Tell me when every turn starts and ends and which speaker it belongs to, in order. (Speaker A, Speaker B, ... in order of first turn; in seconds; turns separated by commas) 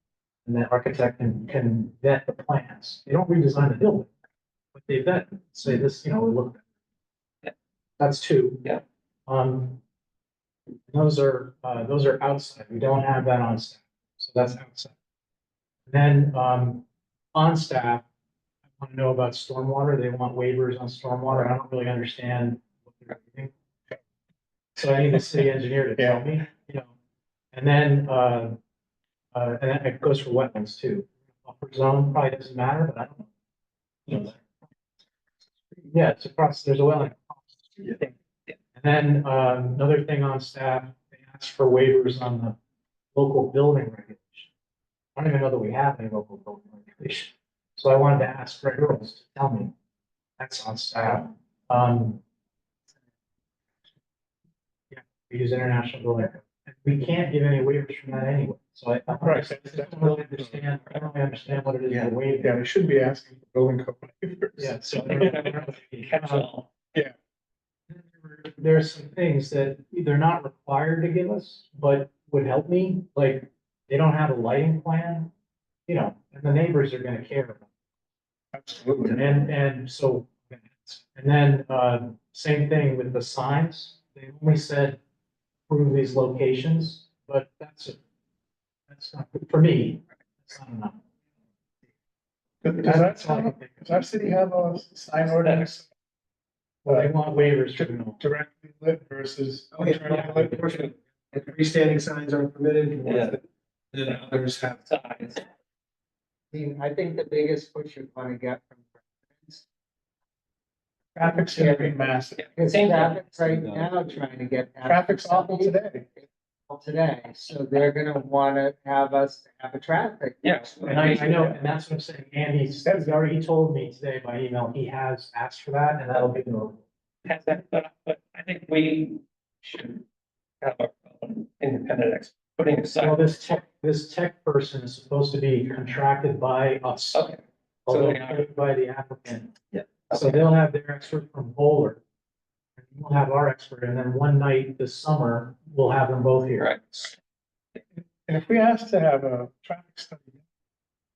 Speaker A: 0.5-4.1, Speaker A: 4.7-6.6, Speaker A: 8.0-8.7, Speaker A: 9.3-9.8, Speaker A: 10.9-14.9, Speaker A: 15.9-18.0, Speaker A: 18.8-23.5, Speaker A: 24.8-26.9, Speaker B: 26.0-26.3, Speaker A: 27.5-28.6, Speaker A: 29.3-33.3, Speaker A: 34.1-34.6, Speaker A: 35.8-38.1, Speaker A: 38.8-42.5, Speaker A: 43.1-44.5, Speaker A: 45.1-49.7, Speaker A: 50.4-52.2, Speaker A: 54.9-62.6, Speaker B: 59.2-60.6, Speaker B: 62.4-65.1, Speaker A: 64.6-66.5, Speaker C: 64.9-66.7, Speaker A: 67.9-75.3, Speaker A: 75.9-77.7, Speaker B: 78.5-79.2, Speaker A: 79.0-85.0, Speaker A: 85.7-88.0, Speaker A: 88.9-91.0, Speaker B: 92.6-95.9, Speaker A: 92.8-93.9, Speaker C: 95.3-95.8, Speaker A: 96.8-98.2, Speaker B: 96.8-97.1, Speaker B: 97.7-100.7, Speaker D: 99.7-103.4, Speaker C: 103.0-103.4, Speaker D: 103.9-104.8, Speaker C: 104.0-105.4, Speaker E: 106.5-109.6, Speaker B: 111.1-112.5, Speaker E: 111.5-112.0, Speaker C: 112.4-113.7, Speaker E: 112.5-115.8, Speaker D: 113.5-113.9, Speaker B: 114.8-116.1, Speaker E: 116.7-120.5, Speaker C: 120.4-121.6, Speaker A: 120.9-126.8, Speaker C: 127.2-130.0, Speaker C: 130.6-133.5, Speaker A: 133.0-137.3, Speaker C: 137.1-138.5, Speaker A: 137.8-139.5, Speaker C: 139.7-140.4, Speaker A: 140.1-142.0, Speaker A: 142.8-147.1, Speaker C: 146.6-147.1, Speaker B: 148.2-150.4